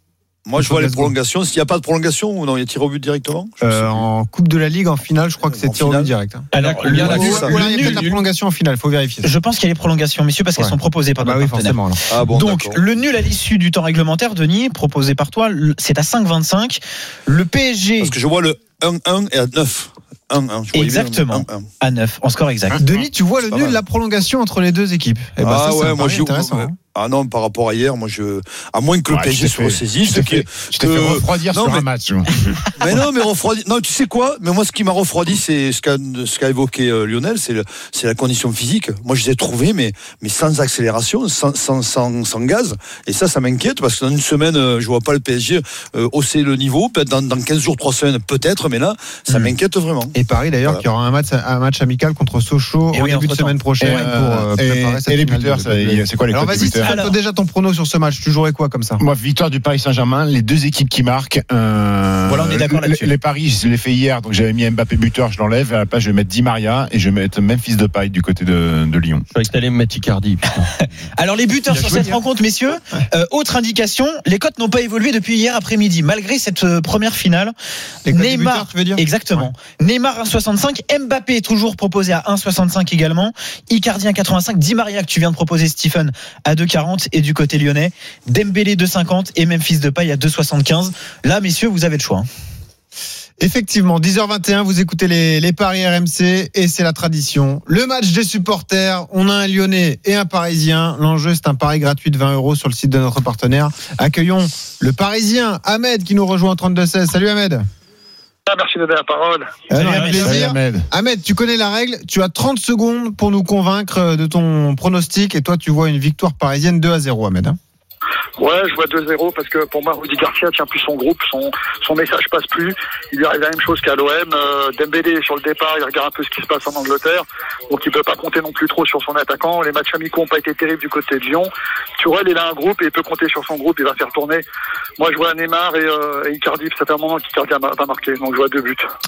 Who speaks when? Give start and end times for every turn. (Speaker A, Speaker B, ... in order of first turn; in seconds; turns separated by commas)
Speaker A: 0.5-4.0, Speaker B: 0.6-1.1, Speaker B: 3.6-9.3, Speaker A: 5.5-6.1, Speaker C: 6.5-8.0, Speaker D: 6.5-8.2, Speaker A: 6.9-7.6, Speaker C: 9.2-18.1, Speaker B: 10.6-12.0, Speaker A: 12.1-12.8, Speaker A: 18.0-21.6, Speaker C: 20.7-22.8, Speaker E: 22.7-23.1, Speaker B: 22.8-26.7, Speaker A: 23.5-23.8, Speaker A: 25.4-31.9, Speaker E: 29.1-32.3, Speaker A: 32.8-50.1, Speaker B: 50.1-59.0, Speaker C: 52.9-54.0, Speaker E: 53.8-57.0, Speaker C: 56.8-57.1, Speaker E: 59.0-69.2, Speaker C: 62.3-63.1, Speaker D: 69.3-70.7, Speaker C: 70.8-77.5, Speaker D: 71.7-72.2, Speaker B: 78.1-79.5, Speaker C: 78.1-92.3, Speaker B: 93.4-107.7, Speaker F: 108.5-109.7, Speaker B: 109.7-117.6, Speaker C: 109.7-110.3, Speaker E: 110.2-110.9, Speaker F: 118.4-134.4, Speaker F: 135.0-138.8